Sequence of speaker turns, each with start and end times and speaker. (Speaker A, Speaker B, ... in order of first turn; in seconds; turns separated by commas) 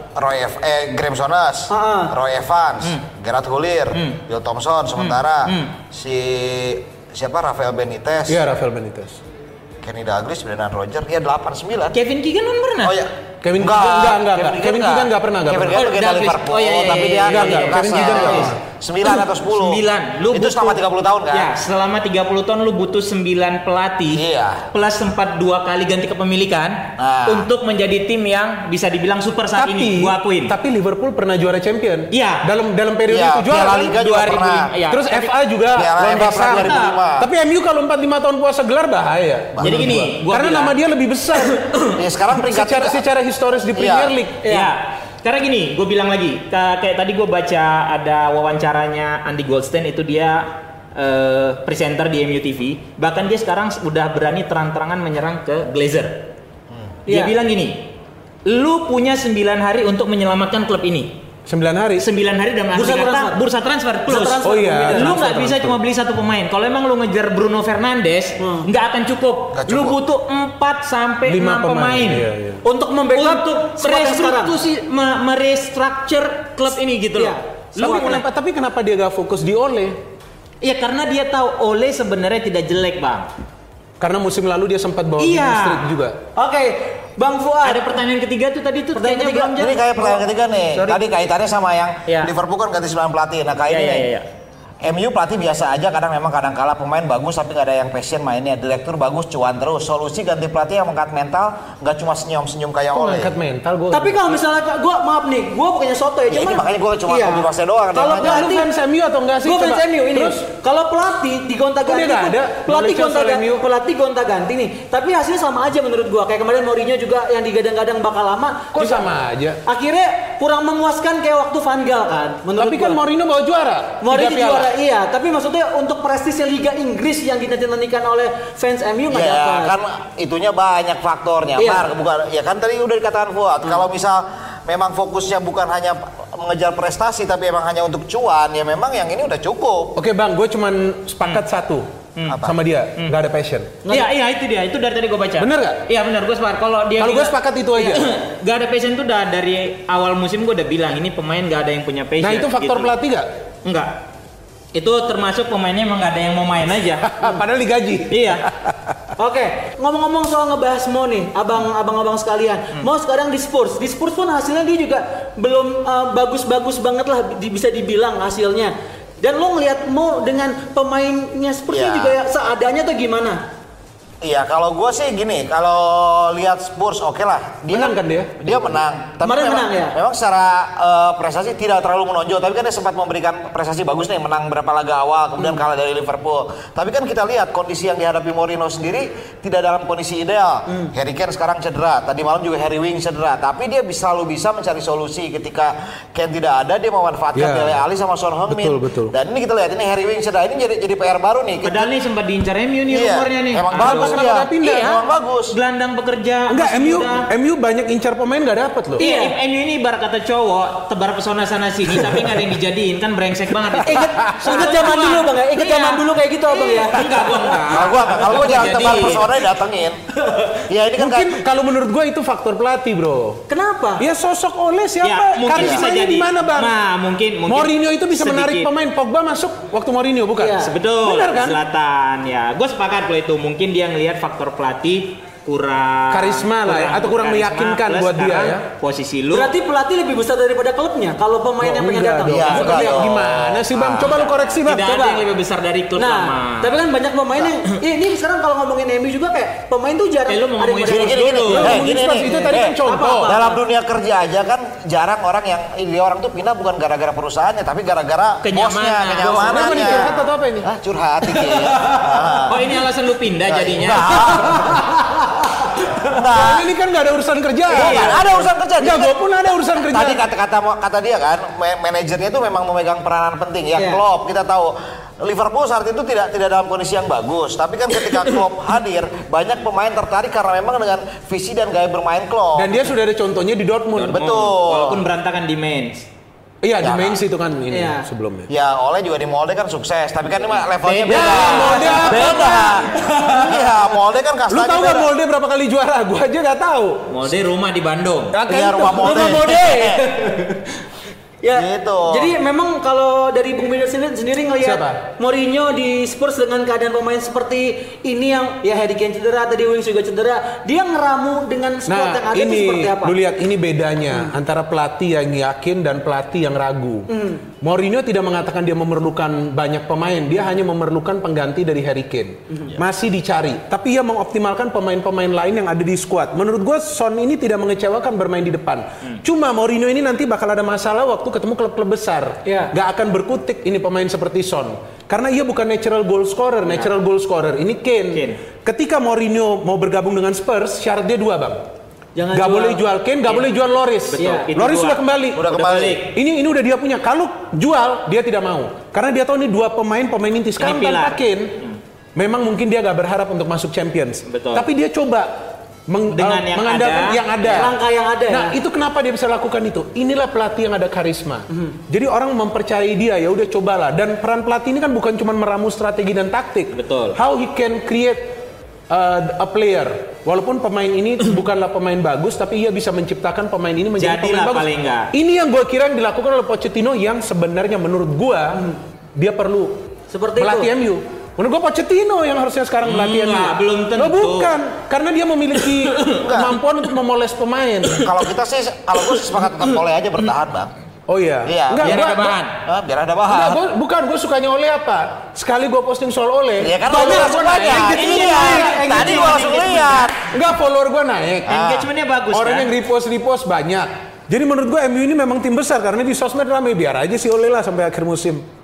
Speaker A: 0.1-8.4, Speaker B: 1.7-2.1, Speaker C: 3.9-4.2, Speaker C: 5.0-5.7, Speaker D: 8.3-9.2, Speaker A: 9.8-11.9, Speaker C: 11.9-13.0, Speaker A: 12.8-21.5, Speaker D: 13.4-15.9, Speaker C: 15.7-30.5, Speaker D: 17.2-18.6, Speaker A: 24.1-24.6, Speaker A: 27.0-27.5, Speaker D: 29.6-34.0, Speaker C: 32.1-32.4, Speaker A: 33.1-34.7, Speaker C: 34.0-35.3, Speaker D: 34.9-41.6, Speaker A: 35.7-37.3, Speaker C: 36.1-37.0, Speaker A: 39.6-40.0, Speaker C: 39.6-40.7, Speaker C: 41.4-41.9, Speaker A: 41.9-43.0, Speaker D: 42.4-44.4, Speaker A: 43.8-44.1, Speaker B: 44.4-44.7, Speaker C: 44.4-56.3, Speaker B: 57.1-57.3, Speaker C: 57.1-57.9, Speaker C: 58.5-61.2, Speaker D: 61.5-62.0, Speaker C: 62.0-72.2, Speaker B: 62.7-63.4, Speaker B: 64.0-65.5, Speaker D: 64.4-65.8, Speaker B: 68.4-68.7, Speaker A: 69.5-70.0, Speaker D: 71.3-72.6, Speaker B: 72.6-74.5, Speaker C: 73.1-78.2, Speaker B: 77.2-78.2, Speaker D: 77.8-80.0, Speaker C: 80.6-83.3, Speaker D: 84.0-86.2, Speaker C: 85.2-85.8, Speaker B: 86.3-87.8, Speaker C: 87.6-89.6, Speaker B: 88.9-90.2, Speaker A: 89.5-94.1, Speaker C: 90.7-91.0, Speaker C: 92.1-92.3, Speaker C: 93.7-94.3, Speaker A: 94.8-103.3, Speaker D: 102.9-104.4, Speaker B: 103.9-108.7, Speaker A: 106.3-108.5, Speaker D: 108.1-110.4, Speaker B: 109.4-119.0, Speaker D: 111.8-113.6, Speaker D: 118.7-119.6, Speaker B: 119.7-123.0, Speaker D: 122.6-124.7, Speaker B: 124.0-129.7, Speaker A: 129.1-139.9, Speaker B: 131.6-131.9, Speaker D: 139.9-141.9, Speaker A: 142.3-142.5, Speaker D: 142.4-143.7, Speaker C: 143.9-152.9, Speaker D: 145.4-145.8, Speaker D: 147.0-148.1, Speaker D: 152.2-153.3, Speaker C: 153.6-153.9, Speaker C: 154.7-157.2, Speaker D: 157.0-159.1, Speaker C: 158.1-158.4, Speaker B: 159.2-173.4, Speaker A: 171.7-172.2, Speaker A: 174.2-201.9, Speaker D: 177.7-178.7, Speaker B: 179.2-179.9, Speaker D: 197.3-197.8, Speaker D: 198.5-199.1, Speaker C: 201.6-207.3, Speaker A: 202.9-205.5, Speaker D: 203.7-204.9, Speaker D: 206.5-209.0, Speaker B: 209.0-209.3, Speaker C: 209.0-219.3, Speaker D: 213.8-214.7, Speaker B: 213.8-217.7, Speaker A: 217.7-220.0, Speaker A: 220.5-221.4, Speaker D: 220.9-223.4, Speaker B: 223.5-224.0, Speaker D: 224.0-226.7, Speaker C: 225.0-228.7, Speaker A: 225.6-225.8, Speaker D: 227.5-231.6, Speaker B: 230.4-230.7, Speaker C: 230.6-239.5, Speaker D: 236.1-238.6, Speaker B: 239.3-243.0, Speaker D: 241.6-244.8, Speaker A: 242.2-244.0, Speaker C: 243.7-246.8, Speaker B: 244.8-245.3, Speaker B: 245.9-253.6, Speaker C: 250.3-251.9, Speaker A: 250.8-262.7, Speaker D: 251.5-253.3, Speaker C: 258.4-260.1, Speaker D: 259.4-260.7, Speaker C: 262.4-264.4, Speaker A: 263.5-264.8, Speaker B: 264.7-265.2, Speaker A: 266.0-266.7, Speaker D: 266.2-270.2, Speaker C: 267.7-268.2, Speaker A: 267.7-269.2, Speaker A: 269.8-282.8, Speaker B: 273.8-274.0, Speaker D: 282.5-284.3, Speaker C: 283.9-286.0, Speaker A: 284.1-285.0, Speaker D: 286.6-288.5, Speaker A: 286.8-287.2, Speaker B: 287.7-288.0, Speaker A: 288.5-295.1, Speaker C: 290.8-292.3, Speaker D: 291.1-292.7, Speaker B: 291.2-293.0, Speaker D: 294.5-297.0, Speaker C: 297.1-298.4, Speaker D: 298.3-299.6, Speaker A: 298.5-300.0, Speaker B: 299.0-300.7, Speaker B: 301.4-313.1, Speaker A: 301.5-302.3, Speaker D: 304.6-305.0, Speaker D: 311.9-317.1, Speaker B: 317.1-317.4, Speaker D: 317.6-341.6, Speaker B: 332.4-332.7, Speaker C: 338.1-338.4, Speaker B: 342.1-342.8, Speaker D: 342.3-345.5, Speaker C: 344.1-346.1, Speaker B: 344.2-344.5, Speaker A: 345.3-346.0, Speaker D: 346.1-351.6, Speaker C: 350.6-351.8, Speaker D: 352.1-355.3, Speaker C: 354.3-354.6, Speaker D: 355.9-357.8, Speaker C: 356.1-357.2, Speaker B: 357.4-358.5, Speaker D: 358.3-368.3, Speaker C: 366.7-367.2, Speaker D: 368.9-388.1, Speaker C: 374.0-375.1, Speaker B: 380.1-380.7, Speaker C: 382.8-384.5, Speaker C: 385.7-386.2, Speaker A: 386.2-386.5, Speaker A: 388.0-390.7, Speaker D: 391.1-392.4, Speaker A: 391.4-393.6, Speaker C: 391.8-392.6, Speaker D: 393.3-398.2, Speaker A: 396.6-400.2, Speaker B: 396.9-399.4, Speaker C: 397.7-400.1, Speaker D: 400.3-401.6, Speaker A: 401.5-401.9, Speaker C: 401.5-402.7, Speaker D: 402.3-408.4